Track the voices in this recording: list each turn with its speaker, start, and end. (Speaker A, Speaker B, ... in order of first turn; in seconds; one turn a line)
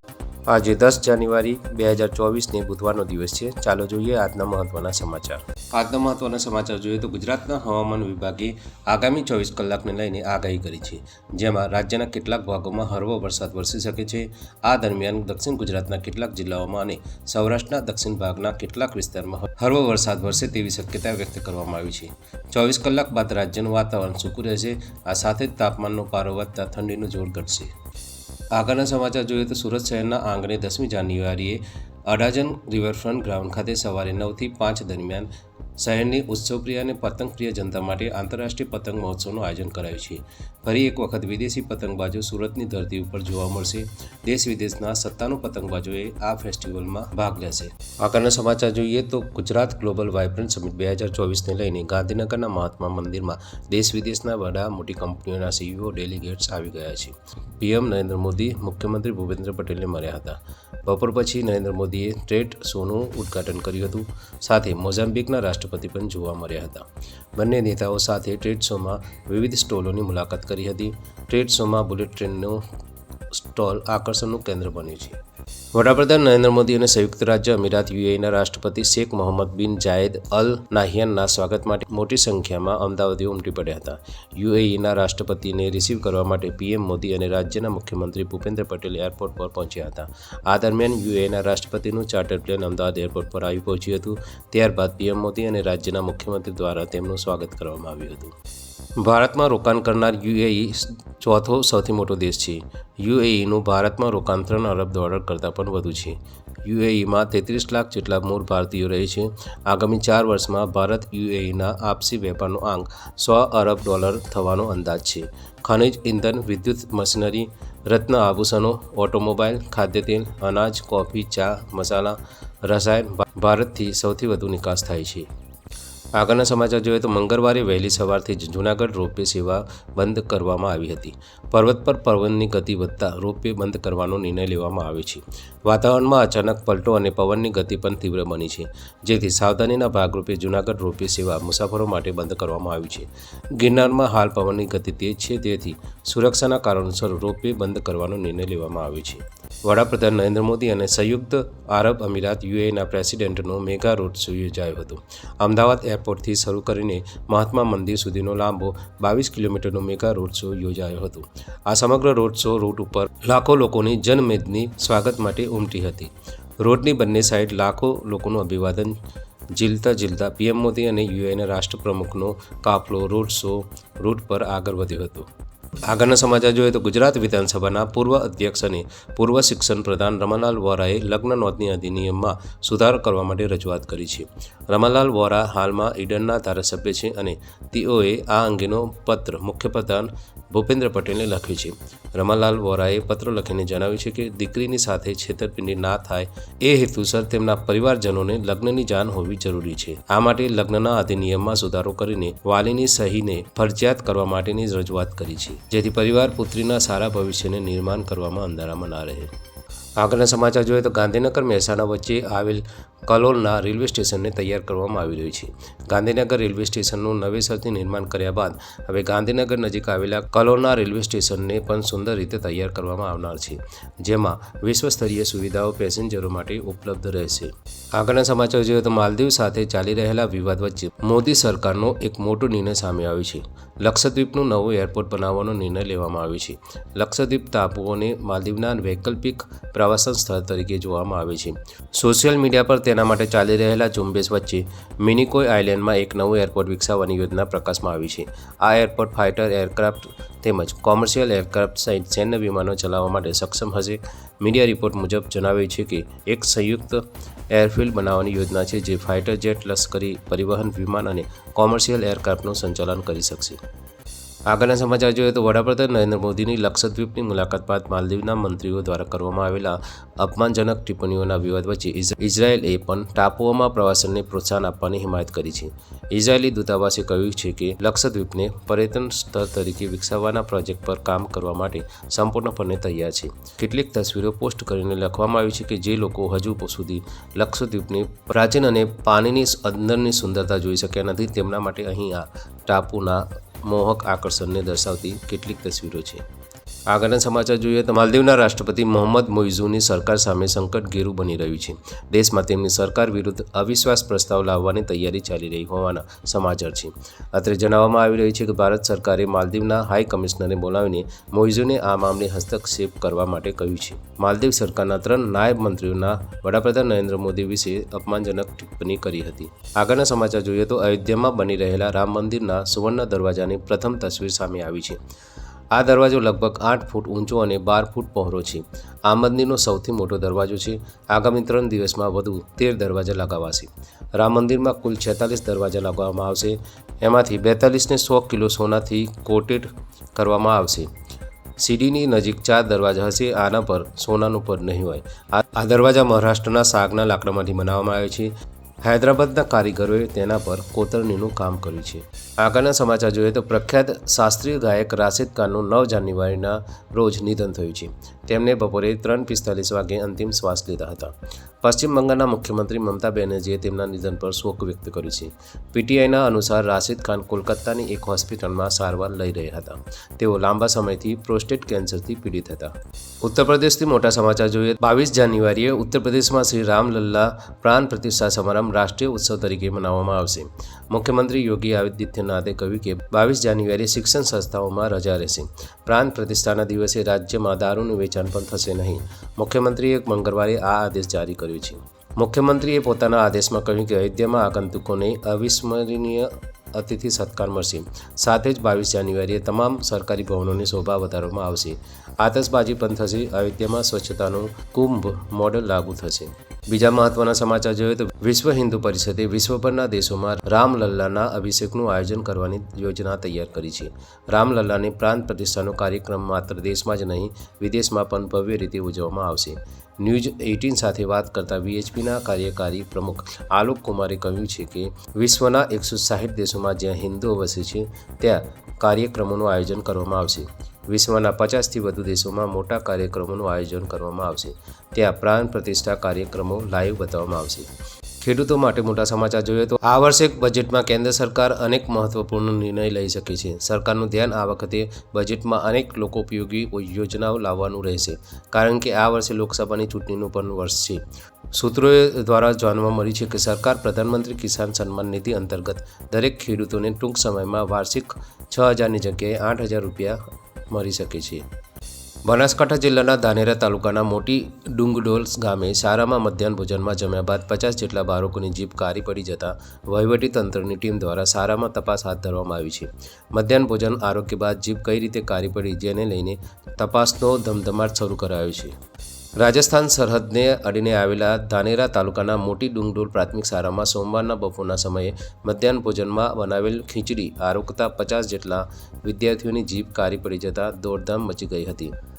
Speaker A: 0.5-27.7
Speaker A: 28.5-72.6
Speaker A: 73.3-75.2
Speaker A: 75.7-98.3
Speaker A: 99.0-125.3
Speaker A: 126.1-169.0
Speaker A: 169.5-175.3
Speaker A: 175.8-209.3
Speaker A: 210.0-263.6
Speaker A: 264.5-296.2
Speaker A: 296.9-325.0
Speaker A: 325.7-340.9
Speaker A: 341.6-437.7
Speaker A: 438.2-460.2
Speaker A: 460.7-461.4
Speaker A: 462.2-478.7
Speaker A: 479.4-491.9